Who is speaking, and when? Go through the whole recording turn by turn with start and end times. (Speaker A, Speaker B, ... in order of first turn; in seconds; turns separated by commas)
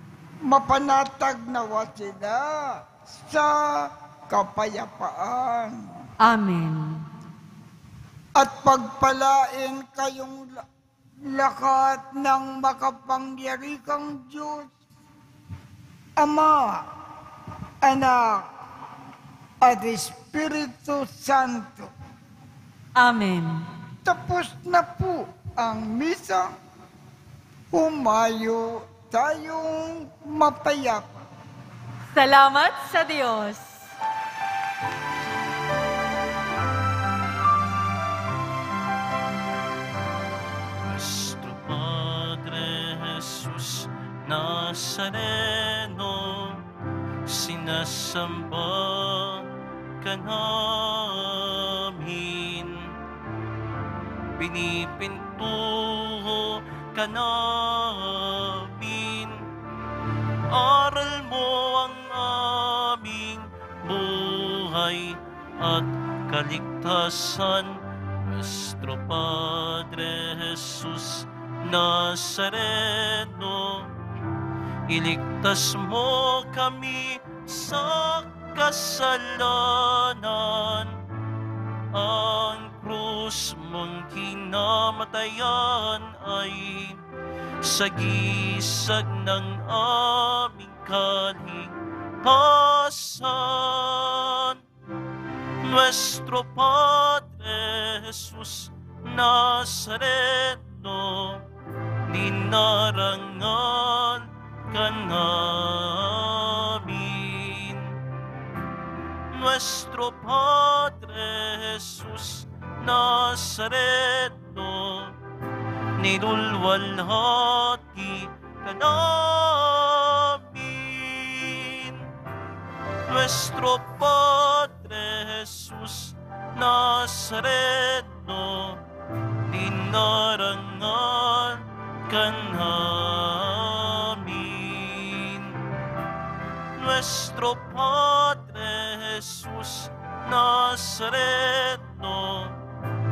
Speaker A: 0.5-5.8, Speaker B: 6.2-7.0, Speaker A: 8.3-10.6, Speaker A: 11.2-14.7, Speaker A: 16.2-16.9, Speaker A: 17.8-18.4, Speaker A: 19.6-21.9, Speaker B: 22.9-23.6, Speaker A: 24.1-26.5, Speaker A: 27.7-31.2, Speaker B: 32.1-33.9, Speaker C: 40.8-46.6, Speaker C: 47.3-49.5, Speaker C: 50.0-52.9, Speaker C: 54.4-59.5, Speaker C: 60.5-73.9, Speaker C: 74.9-80.9, Speaker C: 81.9-87.0, Speaker C: 87.6-94.6, Speaker C: 95.6-101.4, Speaker C: 102.1-108.0, Speaker C: 109.3-115.2, Speaker C: 116.0-122.1, Speaker C: 123.1-128.8, Speaker C: 129.5-135.6, Speaker C: 136.8-142.6